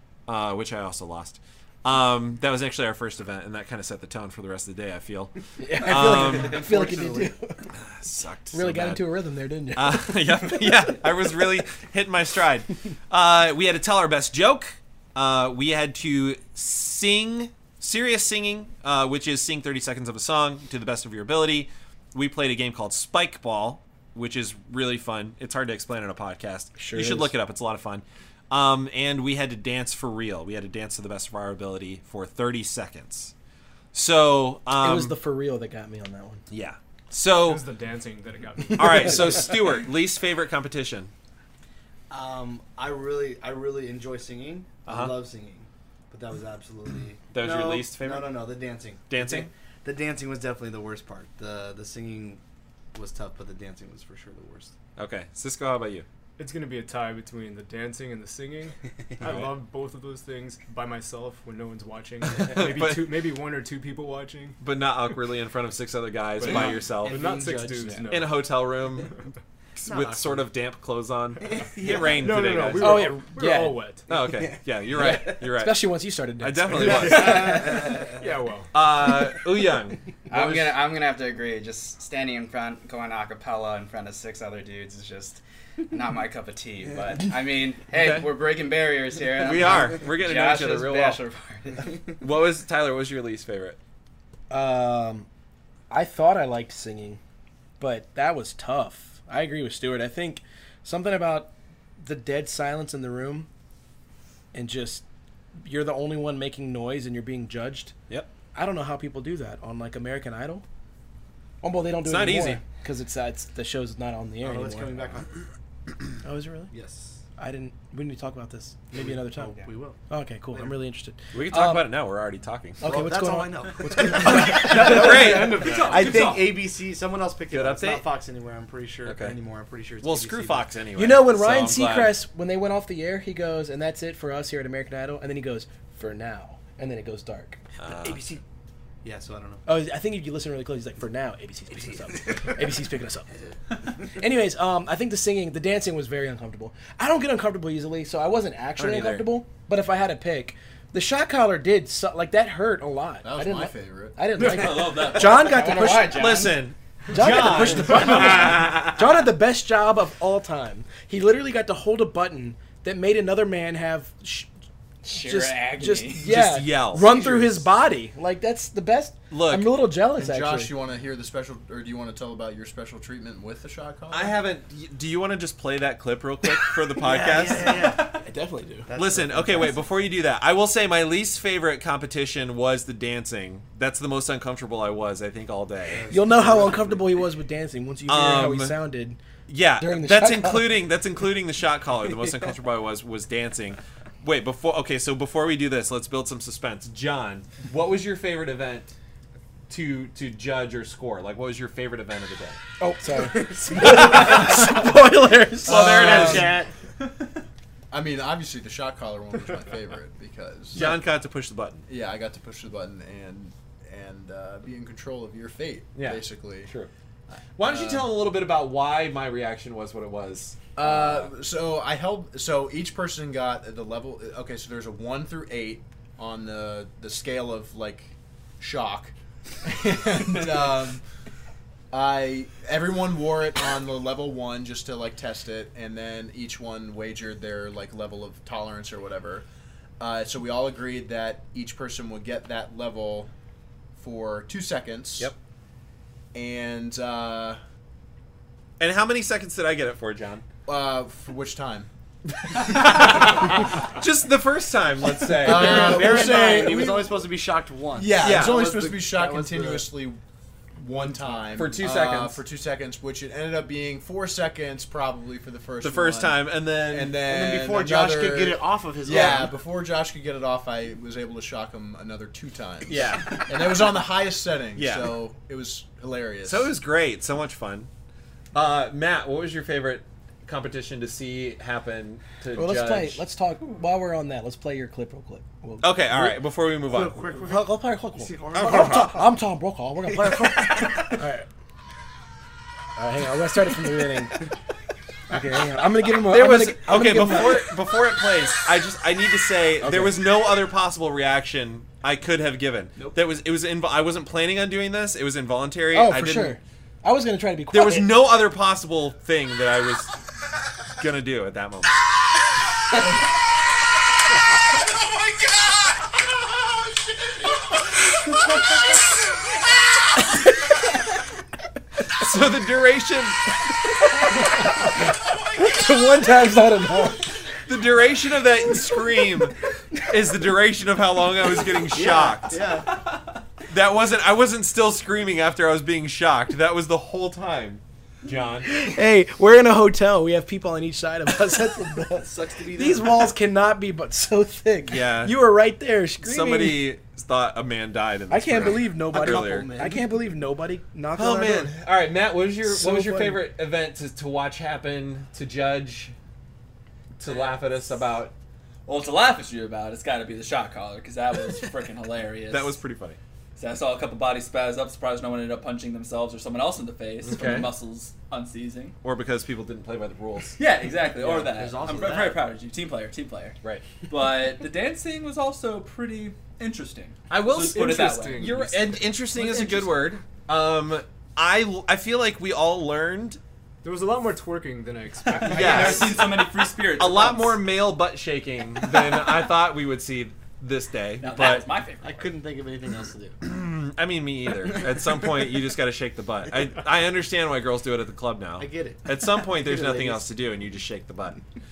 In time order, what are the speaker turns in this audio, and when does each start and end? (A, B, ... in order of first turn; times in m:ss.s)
0:00.3-0:06.6 A
0:05.6-0:07.7 B
0:05.8-0:07.4 C
0:07.8-0:09.0 A
0:08.5-0:10.7 B
0:09.8-0:33.3 A
0:26.8-0:27.3 B
0:33.9-0:35.2 A
0:34.8-0:36.4 B
0:36.5-0:37.7 A
0:37.4-0:39.6 D
0:38.8-0:41.1 A
0:42.1-0:52.4 C
0:44.9-0:45.1 A
0:47.3-0:48.5 A
0:49.1-0:49.5 A
0:52.9-0:54.7 C
0:55.0-0:56.1 A
0:56.4-1:04.6 D
0:59.2-0:59.6 A
1:02.4-1:03.3 A
1:04.6-1:07.2 A
1:06.4-1:08.7 D
1:06.5-1:08.1 C
1:07.2-1:08.0 B
1:08.1-1:09.2 A
1:09.8-1:13.2 A
1:09.9-1:10.4 C
1:11.4-1:12.6 C
1:11.8-1:14.1 D
1:12.8-1:13.8 B
1:14.1-1:15.9 A
1:14.2-1:15.1 C
1:14.9-1:17.9 B
1:16.4-1:17.8 A
1:16.8-1:18.7 D
1:16.9-1:18.2 C
1:18.7-1:20.7 A
1:20.3-1:32.2 E
1:27.9-1:28.3 A
1:29.4-1:31.2 A
1:32.2-1:33.8 A
1:34.5-1:35.3 B
1:35.9-1:37.2 B
1:37.8-1:43.5 B
1:44.5-1:45.0 B
1:45.6-1:47.9 B
1:48.5-1:50.6 B
1:51.6-1:55.1 B
1:52.0-1:52.6 A
1:54.4-1:55.4 C
1:56.2-1:56.7 B
1:56.7-1:57.2 C
1:57.4-2:01.9 B
1:58.9-2:00.0 C
2:01.3-2:02.8 A
2:02.8-2:05.3 B
2:02.8-2:10.7 C
2:04.0-2:06.0 A
2:04.9-2:06.6 F
2:07.5-2:08.0 A
2:09.0-2:09.4 A
2:10.0-2:12.2 A
2:11.0-2:18.1 B
2:17.8-2:18.2 A
2:18.0-2:18.4 C
2:19.0-2:19.6 C
2:19.6-2:23.4 B
2:24.0-2:36.4 B
2:28.8-2:29.3 A
2:33.2-2:34.2 G
2:34.4-2:36.2 F
2:35.3-2:36.5 E
2:36.0-2:38.9 A
2:37.1-2:44.5 B
2:45.0-2:50.7 B
2:45.1-2:46.3 E
2:46.2-2:47.6 A
2:49.3-2:49.7 A
2:50.2-2:54.4 G
2:54.1-2:58.2 A
2:57.0-2:58.2 C
2:57.0-2:58.9 B
2:58.9-2:59.9 C
2:59.0-3:06.1 A
3:05.8-3:07.3 C
3:06.1-3:09.2 B
3:08.1-3:08.8 A
3:09.5-3:18.9 A
3:09.8-3:10.8 B
3:19.7-3:22.6 A
3:22.8-3:26.5 B
3:23.4-3:24.2 C
3:23.8-3:24.9 A
3:25.6-3:26.7 A
3:25.6-3:26.6 G
3:27.9-3:31.0 G
3:30.7-3:31.9 A
3:31.9-3:36.7 G
3:36.0-3:36.9 A
3:37.3-3:38.1 G
3:37.6-3:41.3 A
3:40.8-3:49.1 G
3:49.6-3:51.0 G
3:51.9-3:59.4 G
4:00.0-4:03.3 G
4:04.0-4:05.3 G
4:06.3-4:07.6 G
4:08.8-4:10.4 A
4:10.7-4:11.9 G
4:12.4-4:16.2 A
4:15.2-4:17.2 G
4:15.4-4:19.9 C
4:18.0-4:20.2 G
4:18.2-4:18.6 A
4:20.8-4:36.7 G
4:21.5-4:22.4 A
4:25.8-4:27.3 A
4:27.2-4:29.6 C
4:29.1-4:29.5 A
4:32.8-4:33.7 A
4:34.8-4:35.2 A
4:36.4-4:37.9 A
4:38.5-4:43.2 A
4:42.5-4:46.4 B
4:45.8-4:47.4 A
4:46.9-4:49.4 C
4:47.4-4:51.5 B
4:48.5-4:49.2 A
4:50.1-4:51.1 C
4:53.0-4:54.5 B
4:55.3-4:57.7 B
4:56.2-5:06.6 A
4:59.8-5:00.2 B
5:05.9-5:08.2 B
5:07.7-5:10.2 A
5:11.0-5:12.1 A
5:22.1-5:23.4 A
5:25.5-5:27.3 B
5:27.6-5:29.6 A
5:30.1-5:32.6 A
5:31.9-5:32.9 C
5:33.7-5:38.7 A
5:38.7-5:46.9 B
5:42.1-5:43.3 C
5:44.9-5:45.5 A
5:46.2-5:49.8 A
5:48.3-5:51.7 B
5:49.2-5:50.0 C
5:51.2-5:56.1 A
5:52.6-5:53.4 B
5:57.2-5:58.3 A
5:58.9-6:02.8 F
6:02.5-6:03.2 A
6:03.6-6:09.0 F
6:07.2-6:07.7 A
6:09.0-6:10.6 A
6:10.6-6:18.6 F
6:11.2-6:12.4 C
6:17.3-6:23.4 A
6:17.5-6:18.9 D
6:23.8-6:26.2 D
6:25.3-6:27.6 F
6:25.4-6:26.3 A
6:26.9-6:31.7 A
6:31.2-6:32.4 F
6:32.0-6:33.4 C
6:33.4-6:41.4 A
6:38.6-6:40.3 C